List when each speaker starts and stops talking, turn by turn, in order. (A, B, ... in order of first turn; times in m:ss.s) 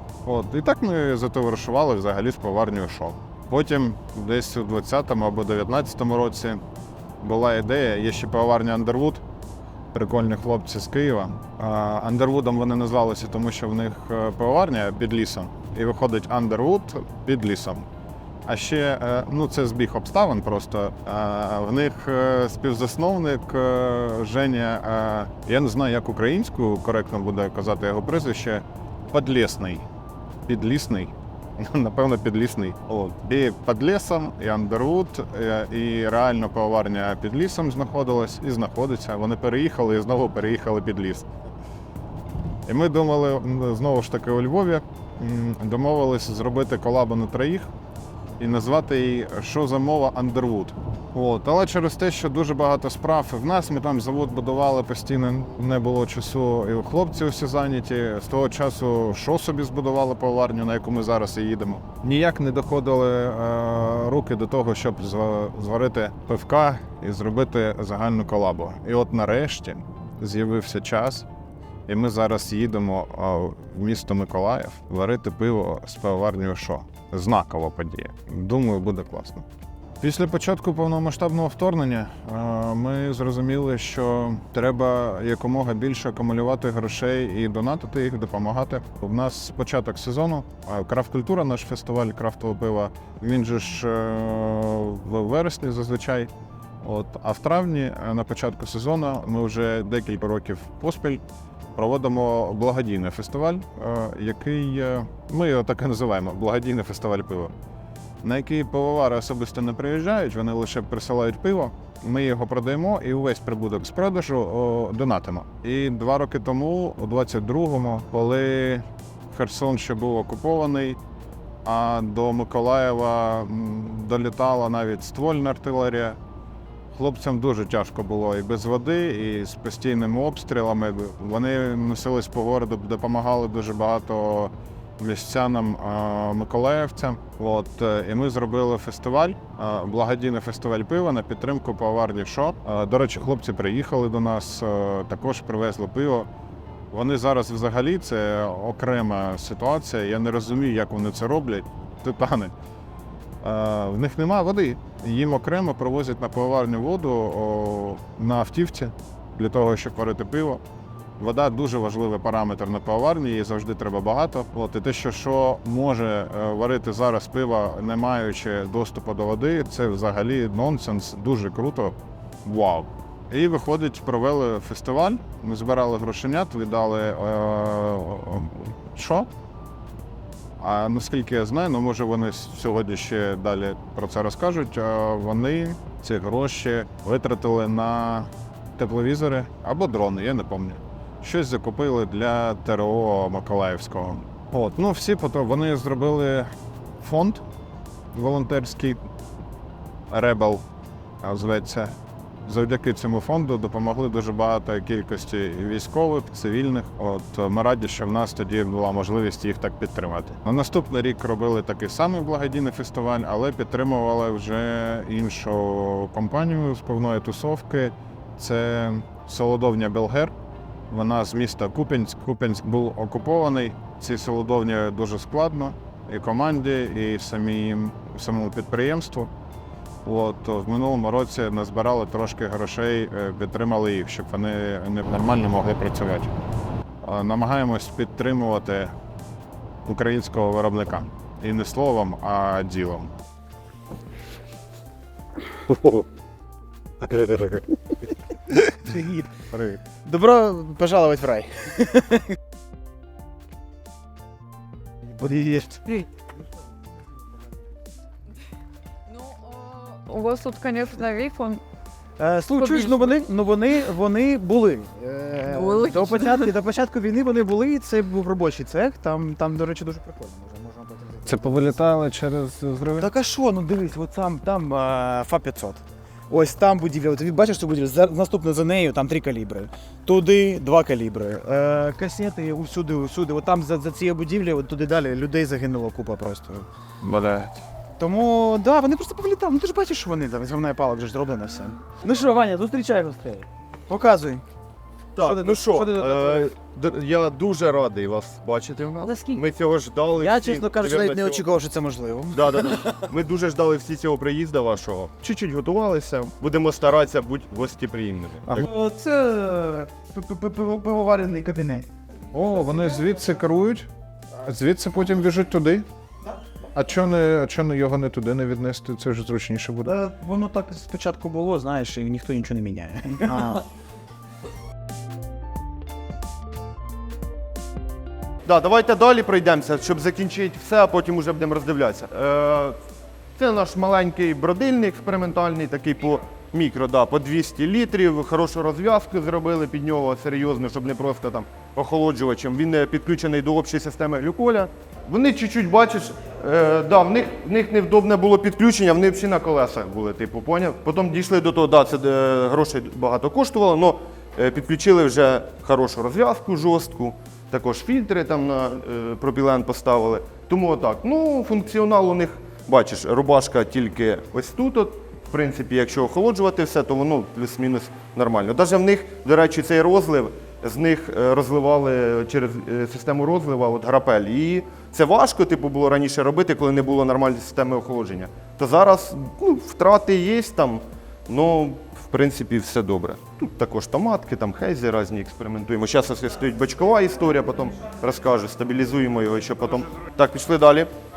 0:00.2-0:06.6 A
0:07.2-0:09.2 A
0:09.9-0:17.9 A
0:18.4-0:29.8 A
0:30.4-0:41.3 A
0:42.6-0:47.7 A
0:48.4-1:11.3 A
1:11.9-1:19.4 A
1:20.0-1:41.2 A
1:41.7-1:47.5 A
1:48.2-2:01.0 A
2:01.6-2:06.2 A
2:06.9-2:26.3 A
2:26.9-2:32.5 A
2:33.4-2:40.6 A
2:41.2-2:59.3 A
3:00.6-3:16.5 A
3:17.0-3:17.4 A
3:18.1-3:19.0 A
3:20.1-3:20.6 A
3:21.2-3:40.3 A
3:40.9-3:49.3 A
3:50.0-3:56.3 A
3:57.0-3:58.9 A
3:59.8-4:03.1 A
4:05.6-4:06.0 A
4:07.0-4:07.7 A
4:08.8-4:09.3 B
4:09.5-4:09.8 A
4:10.0-4:12.2 B
4:15.1-4:16.0 B
4:19.1-4:21.6 C
4:22.2-4:31.7 B
4:22.6-4:22.9 C
4:25.5-4:26.3 C
4:31.2-4:33.1 A
4:33.0-4:46.7 B
4:47.0-4:47.5 A
4:48.0-4:54.4 B
4:55.1-5:01.4 D
4:55.2-4:56.5 B
5:00.2-5:03.0 B
5:02.3-5:08.5 D
5:08.5-5:11.9 B
5:12.3-5:13.9 A
5:14.4-5:15.9 A
5:16.7-5:19.9 A
5:19.8-5:23.6 B
5:28.4-5:32.8 D
5:33.4-6:30.9 D